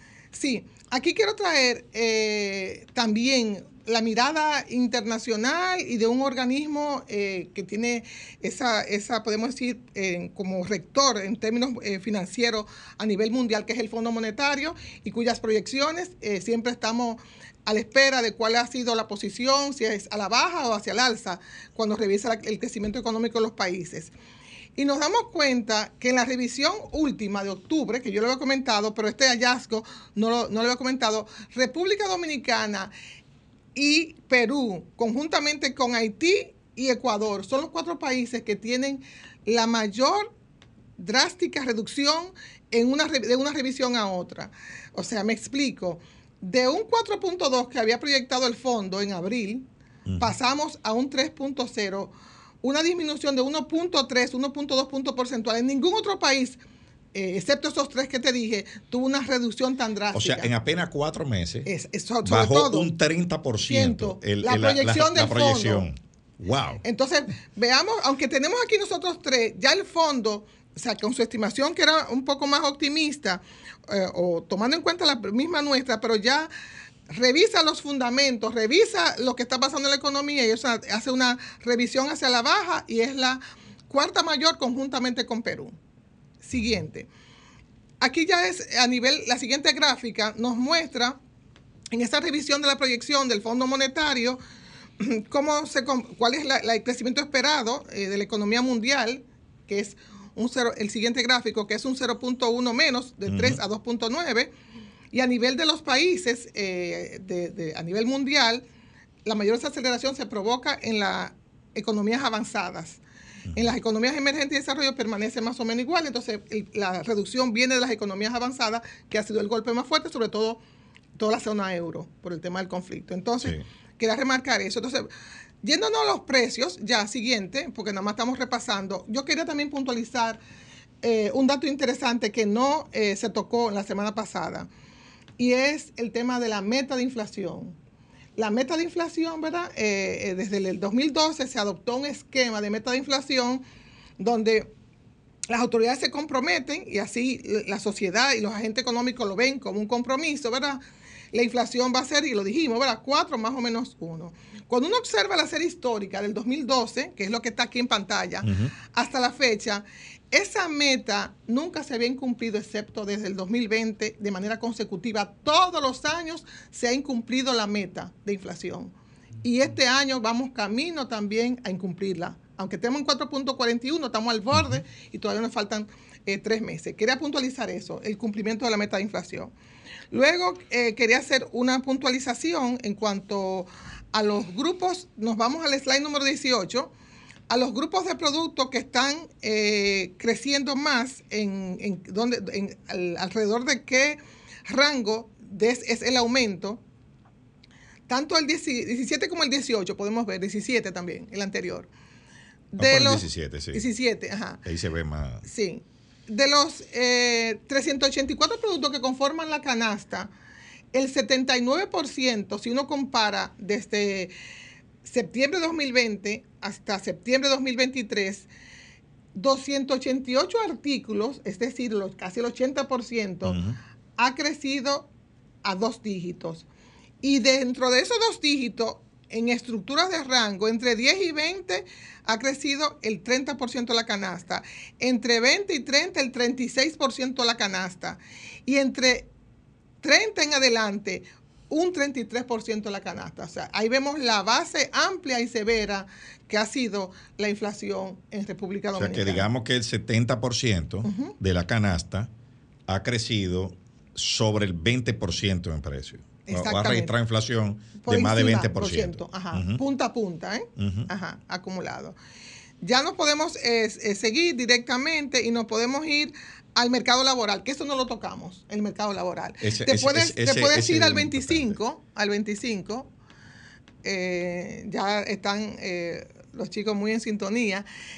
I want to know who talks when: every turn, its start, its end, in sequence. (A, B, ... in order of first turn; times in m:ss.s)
0:00.3-0:24.1 A
0:24.8-0:32.9 A
0:33.8-0:40.3 A
0:41.0-0:49.7 A
0:50.1-0:50.4 B
0:50.2-0:56.6 A
0:57.1-1:00.5 A
1:00.1-1:01.7 B
1:01.7-1:02.9 A
1:02.2-1:06.8 B
1:03.7-1:05.9 A
1:06.8-1:16.5 A
1:17.1-1:25.8 A
1:26.4-1:27.1 A
1:28.0-1:31.2 A
1:31.9-1:34.4 A
1:35.0-1:44.5 A
1:43.3-1:43.6 B
1:45.1-1:48.6 A
1:49.2-1:53.0 A
1:53.6-2:00.6 A
2:01.2-2:05.1 A
2:05.6-2:10.4 A
2:11.0-2:14.7 A
2:15.4-2:17.8 A
2:18.4-2:23.6 A
2:24.2-2:24.7 A
2:25.5-2:30.8 A
2:31.3-2:59.5 A
2:38.4-2:38.7 B
2:54.5-2:54.8 B
3:00.1-3:06.9 A
3:07.5-3:16.8 A
3:18.1-3:21.9 A
3:22.7-3:24.6 A
3:22.8-3:23.8 B
3:24.6-3:25.4 B
3:25.5-3:30.3 A
3:30.9-3:34.3 A
3:35.0-3:38.5 A
3:39.4-3:43.6 A
3:43.4-3:43.8 B
3:44.2-3:45.1 A
3:45.6-3:46.6 A
3:47.2-3:59.3 A
4:00.0-4:09.5 A
4:09.0-4:12.3 B
4:11.0-4:11.4 A
4:12.9-4:19.8 B
4:16.5-4:17.1 A
4:18.0-4:22.2 A
4:20.8-4:21.1 B
4:22.8-4:33.1 A
4:29.6-4:31.8 B
4:34.0-4:37.9 A